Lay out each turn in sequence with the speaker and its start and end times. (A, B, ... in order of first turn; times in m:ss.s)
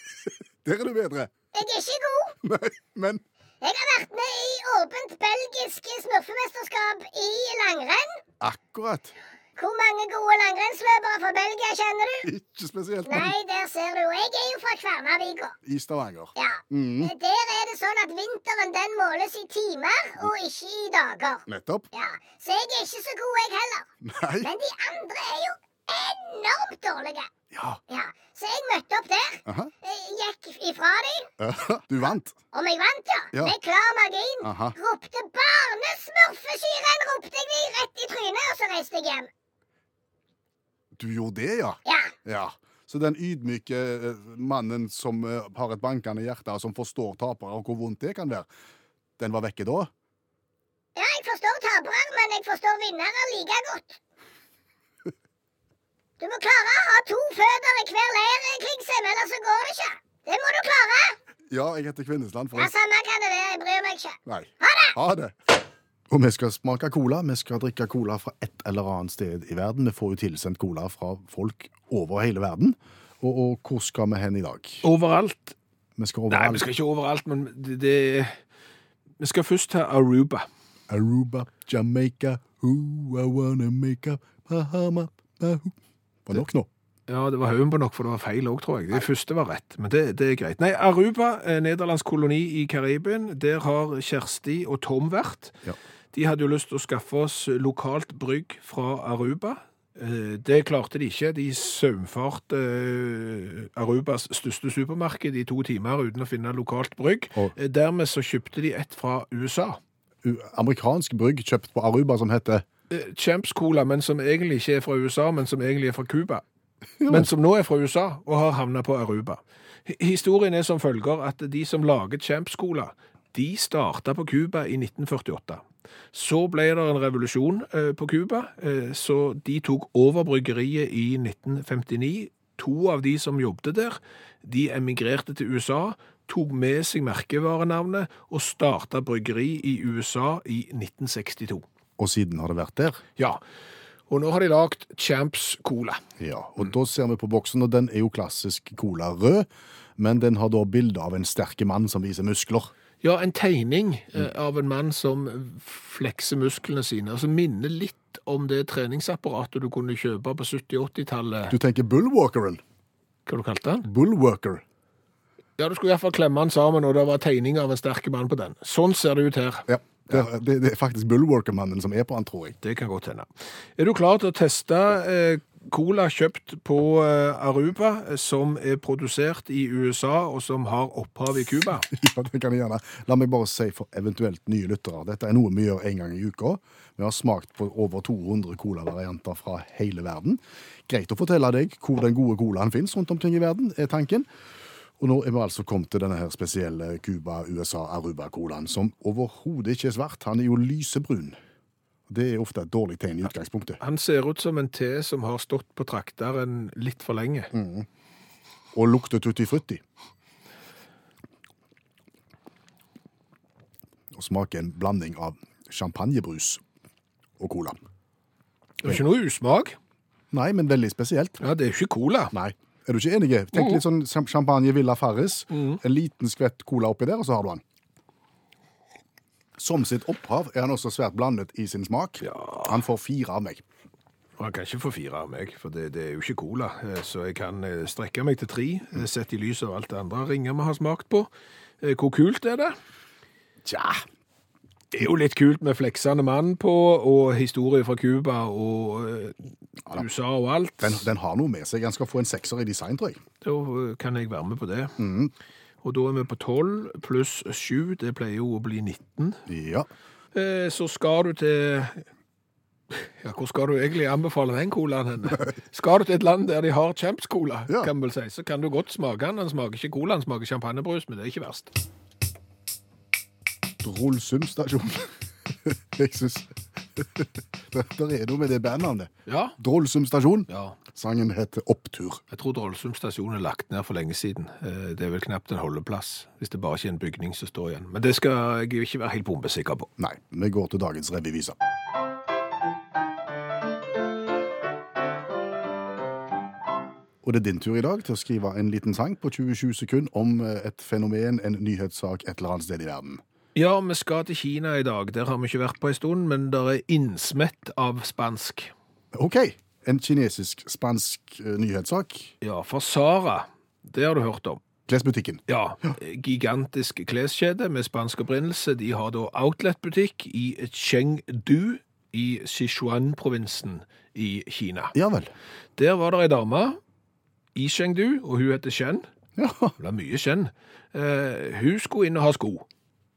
0:00.6-0:01.3 A
0:01.5-0:02.4 B
0:02.4-0:03.2 A
0:03.6-0:08.2 B
0:08.4-0:09.1 A
0:09.6-0:12.3 B
0:12.2-0:13.3 A
0:13.0-0:15.6 B
0:15.6-0:17.1 A
0:16.4-0:23.9 B
0:21.5-0:21.9 A
0:24.0-0:24.5 A
0:24.4-0:27.3 B
0:27.5-0:27.8 A
0:27.9-0:31.3 B
0:29.4-0:29.7 A
0:31.4-0:32.4 A
0:32.5-0:39.3 B
0:34.4-0:34.8 A
0:40.9-0:48.5 A
0:41.9-0:42.1 B
0:49.2-0:49.9 A
0:51.0-0:54.0 B
0:56.2-1:01.2 B
1:01.5-1:02.7 A
1:02.6-1:05.0 B
1:04.2-1:05.6 A
1:06.1-1:14.8 A
1:14.8-1:15.6 C
1:16.0-1:16.7 A
1:16.3-1:18.4 C
1:19.2-1:20.5 C
1:20.9-1:25.8 A
1:26.2-1:26.7 A
1:27.1-1:35.6 C
1:36.1-1:49.8 C
1:50.2-1:52.6 A
1:52.9-1:56.4 C
1:57.0-1:57.3 A
1:57.0-2:21.6 C
2:22.0-2:23.0 A
2:24.1-2:26.0 C
2:26.2-2:32.7 A
2:33.0-2:41.5 C
2:41.5-2:42.6 A
2:43.2-2:43.9 C
2:43.8-2:44.6 A
2:45.6-2:49.7 C
2:49.7-2:52.6 A
2:52.6-3:01.9 C
3:01.9-3:14.3 A
3:15.0-3:21.4 A
3:22.1-3:23.8 A
3:23.8-3:27.5 C
3:27.5-3:27.9 A
3:28.7-3:29.8 A
3:34.1-3:36.6 A
3:37.4-3:37.8 A
3:38.8-3:39.8 C
3:40.3-3:41.4 A
3:41.4-3:42.3 C
3:42.3-3:47.6 A
3:43.5-3:43.8 C
3:45.5-3:45.8 C
3:49.6-3:53.6 A
3:52.2-3:52.8 C
3:54.4-4:01.3 C
4:01.8-4:02.8 C
4:03.6-4:04.0 A
4:04.9-4:11.0 C
4:10.8-4:13.2 A
4:13.4-4:15.0 C
4:15.0-4:15.3 A
4:15.8-4:19.4 C
4:19.5-4:19.9 A
4:20.3-4:22.0 C
4:22.9-4:31.7 C
4:33.8-4:35.1 A
4:35.6-4:42.2 A
4:39.2-4:39.6 C
4:40.5-4:40.8 C
4:42.3-4:49.9 C
4:50.0-4:51.6 A
4:57.2-5:03.2 A
5:03.5-5:08.7 C
5:09.1-5:12.3 A
5:12.4-5:14.6 C
5:14.9-5:15.4 A
5:15.5-5:25.0 C
5:24.9-5:25.3 A
5:25.8-5:26.8 C
5:27.5-5:29.1 C
5:29.4-5:29.7 A
5:29.8-5:32.6 C